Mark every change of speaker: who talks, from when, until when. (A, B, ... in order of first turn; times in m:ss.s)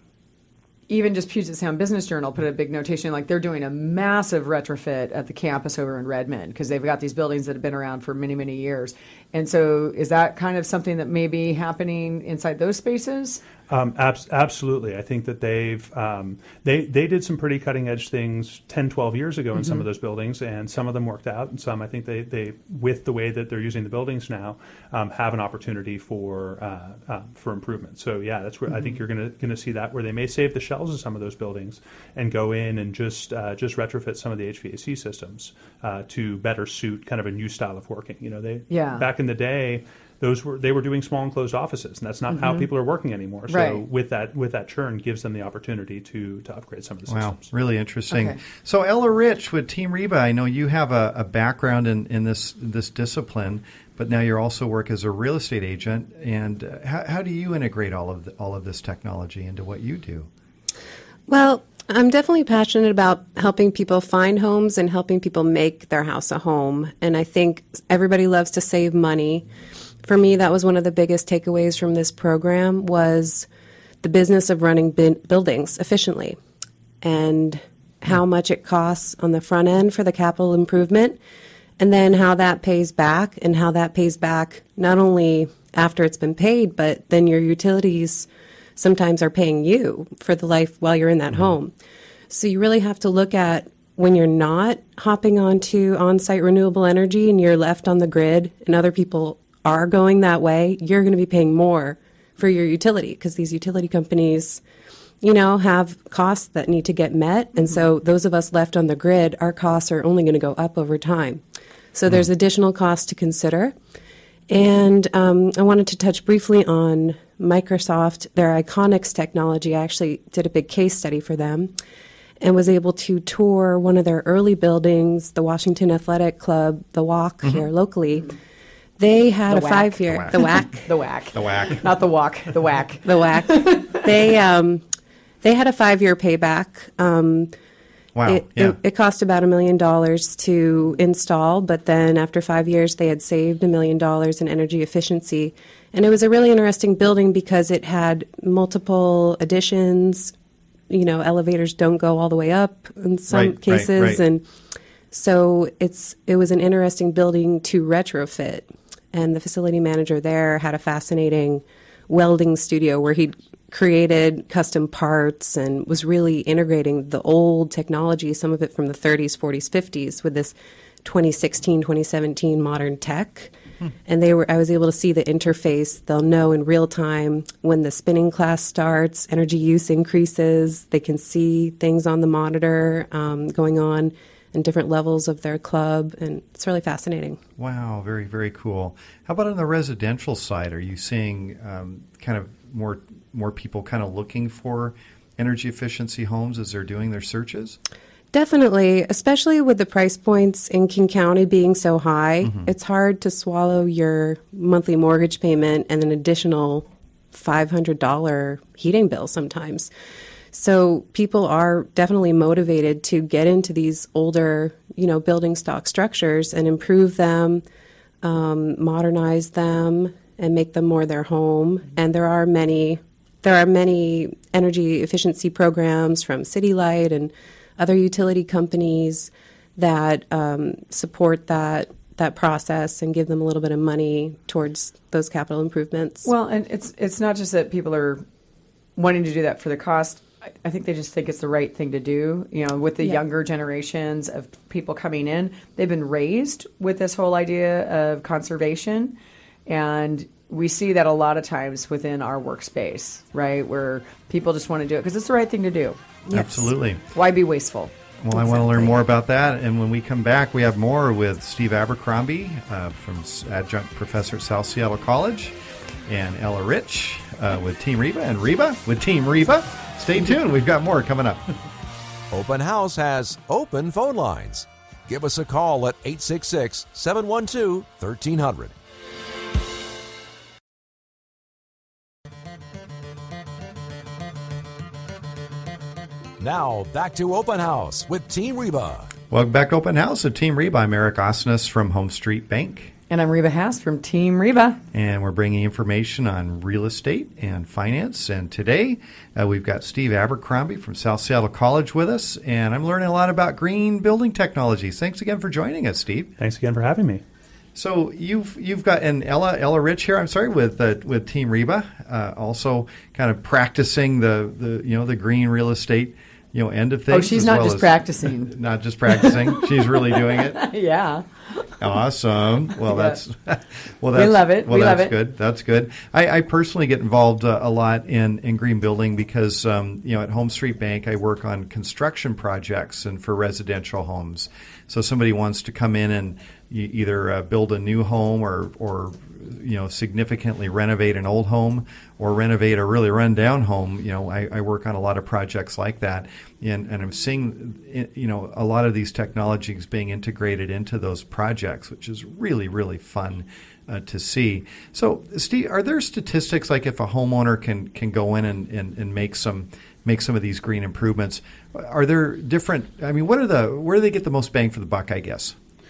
0:00.9-0:13.4 A
0:13.7-0:47.5 B
0:19.6-0:19.8 A
0:28.7-0:29.0 A
0:38.7-0:39.0 A
0:42.3-0:42.7 A
0:43.5-0:43.8 A
0:47.1-1:00.3 C
0:48.1-0:48.4 A
1:01.3-1:09.4 D
1:10.0-1:13.5 D
1:14.0-1:16.4 D
1:17.0-1:21.2 D
1:21.8-1:31.7 D
1:32.3-1:44.6 D
1:45.2-1:51.4 D
1:51.9-1:53.7 D
1:54.5-2:01.7 D
2:02.4-2:08.3 D
2:09.0-2:10.9 D
2:09.5-2:14.0 A
2:10.1-2:10.4 C
2:11.3-2:11.8 C
2:13.0-2:14.8 D
2:15.4-2:17.5 D
2:18.1-2:18.8 C
2:18.2-2:30.3 D
2:30.9-2:34.4 D
2:33.3-2:34.2 C
2:35.1-2:53.5 D
2:54.0-3:07.4 D
3:07.6-3:17.8 C
3:18.3-3:29.9 D
3:22.4-3:22.7 C
3:30.5-3:37.6 D
3:38.2-3:56.3 D
3:56.2-3:58.2 A
3:59.0-4:16.0 A
4:16.3-4:16.7 D
4:16.3-4:17.0 C
4:17.1-4:17.9 A
4:18.2-4:25.5 C
4:18.4-4:18.9 D
4:26.1-4:31.4 C
4:32.3-4:38.7 E
4:46.4-4:49.1 E
4:49.3-4:52.9 C
4:53.1-4:54.8 A
4:54.9-5:06.3 C
5:06.4-5:07.2 B
5:07.7-5:20.6 C
5:17.1-5:18.5 A
5:19.1-5:21.7 A
5:21.8-6:05.5 C
5:22.9-5:23.2 A
5:24.1-5:25.1 A